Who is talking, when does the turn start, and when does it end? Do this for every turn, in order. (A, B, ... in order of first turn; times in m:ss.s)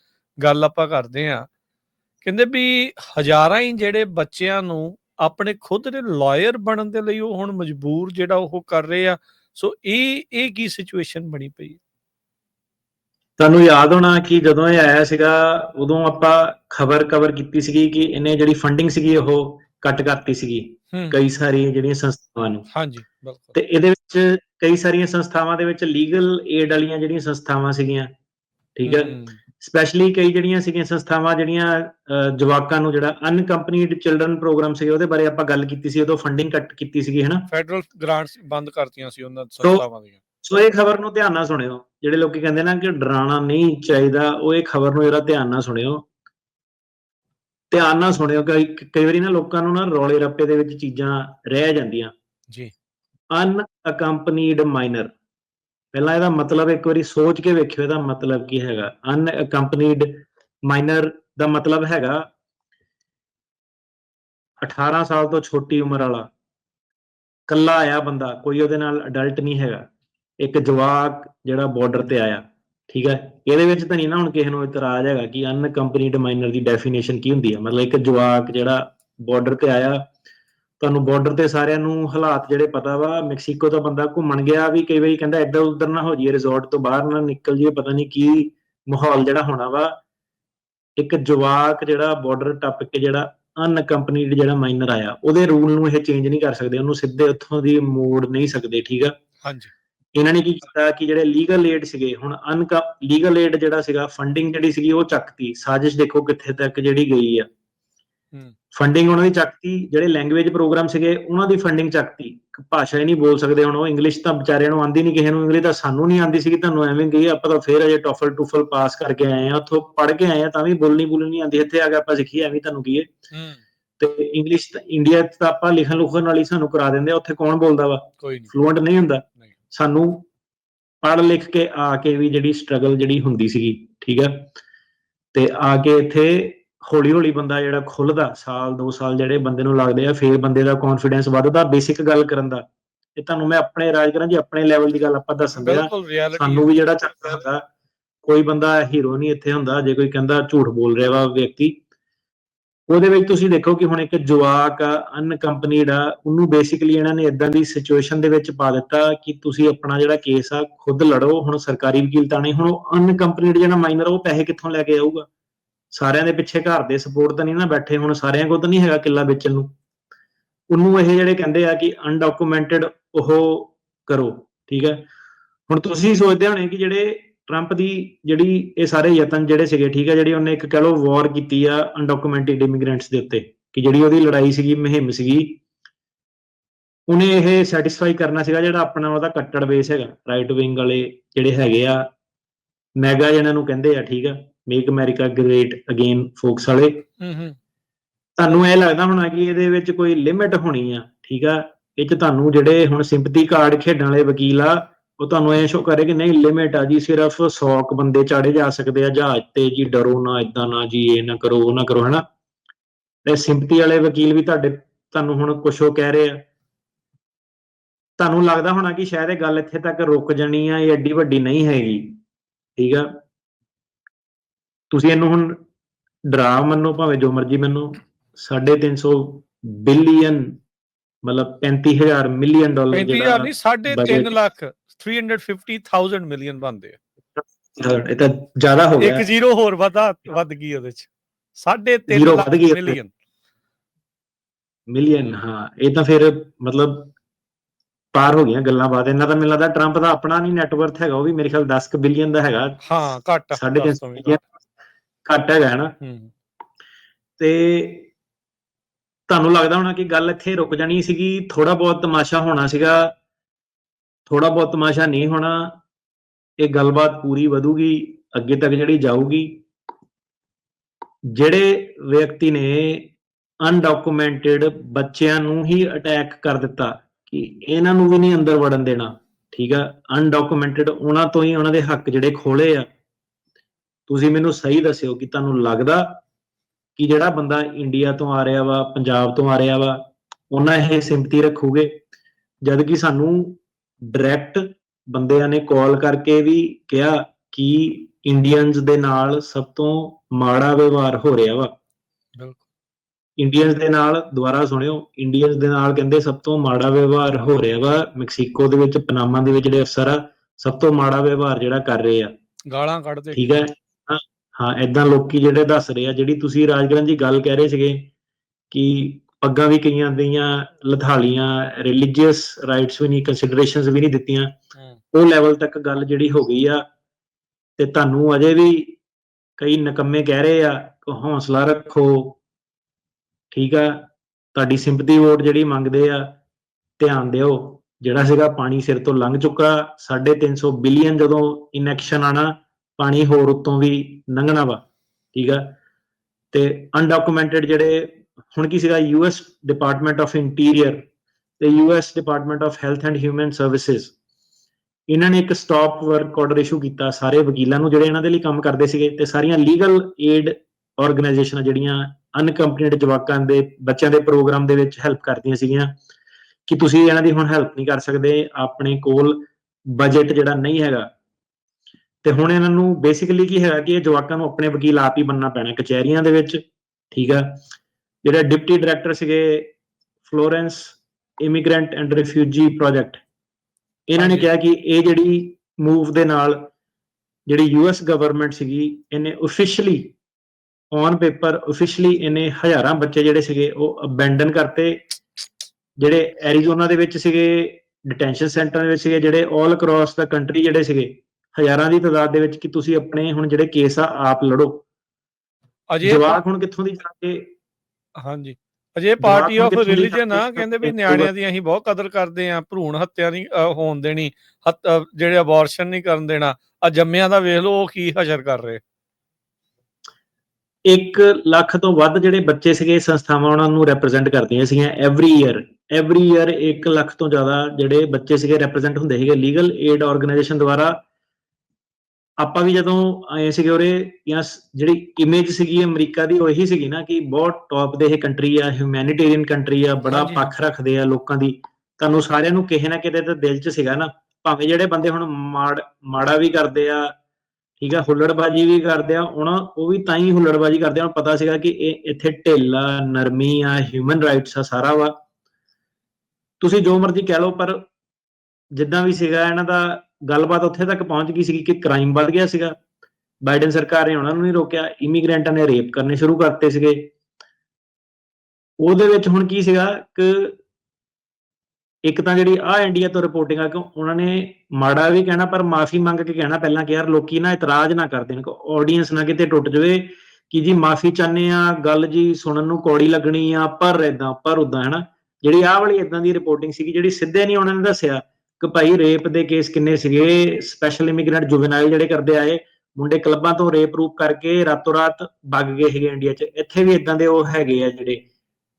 0:00.4-0:01.5 A
0:02.2-0:11.8 A
0:13.4-0:22.7 B
0:20.9-0:21.2 A
0:22.7-0:23.6 A
0:23.5-0:28.1 B
0:28.8-0:37.5 B
0:28.9-0:29.4 A
0:37.5-0:40.2 A
0:40.4-0:46.0 B
0:47.7-0:52.1 B
0:53.3-0:55.1 B
0:55.9-1:02.2 B
1:04.6-1:06.3 B
1:07.5-1:09.9 B
1:10.4-1:20.0 B
1:20.8-1:30.0 B
1:31.0-1:39.1 B
1:39.4-1:39.7 A
1:40.1-1:47.5 B
1:48.7-2:03.1 B
2:03.3-2:03.6 A
2:04.0-2:10.3 B
2:08.2-2:08.5 A
2:11.0-2:14.5 B
2:15.3-2:27.6 B
2:25.6-2:26.7 A
2:28.2-2:31.8 B
2:32.9-2:45.3 B
2:45.9-2:49.7 B
2:50.7-2:55.0 B
2:55.7-3:05.6 B
3:07.1-3:12.0 B
3:13.0-3:17.0 B
3:17.2-3:17.6 A
3:18.4-3:32.2 B
3:33.2-3:36.4 B
3:38.2-3:42.2 B
3:42.8-3:43.1 B
3:44.9-3:45.6 B
3:46.3-3:50.6 B
3:51.2-3:54.3 B
3:52.9-3:57.0 A
3:57.4-3:59.2 B
3:59.0-4:03.1 A
4:02.1-4:03.0 B
4:04.9-4:07.1 B
4:08.1-4:12.8 B
4:12.8-4:14.4 A
4:13.5-4:14.4 B
4:15.2-4:15.9 B
4:16.0-4:16.3 A
4:17.4-4:18.1 B
4:19.3-4:23.1 B
4:24.3-4:25.8 B
4:26.6-4:29.6 B
4:31.3-4:42.8 B
4:44.1-4:46.2 B
4:47.0-4:52.0 B
4:52.6-5:01.7 B
5:02.4-5:02.6 A
5:03.4-5:12.3 B
5:12.7-5:13.5 A
5:13.3-5:18.1 B
5:18.7-5:24.6 B
5:25.1-5:26.8 B
5:27.8-5:29.0 B
5:29.6-5:32.4 B
5:33.5-5:36.4 B
5:37.0-5:45.8 B
5:46.5-5:51.0 B
5:51.6-5:54.1 B
5:55.1-6:06.0 B
6:06.7-6:11.1 B
6:12.2-6:17.6 B
6:18.2-6:19.7 B
6:20.2-6:23.2 B
6:24.1-6:26.7 B
6:24.2-6:24.5 A
6:27.5-6:30.2 B
6:30.9-6:35.0 B
6:36.0-6:44.8 B
6:45.9-6:46.4 A
6:46.0-6:47.5 B
6:48.2-6:58.8 A
6:49.2-6:51.3 B
7:00.9-7:11.0 B
7:12.4-7:27.1 B
7:20.1-7:20.5 A
7:27.8-7:35.1 B
7:36.6-7:37.9 B
7:38.7-7:42.8 B
7:43.4-7:47.1 B
7:48.8-7:50.6 B
7:52.0-8:18.2 B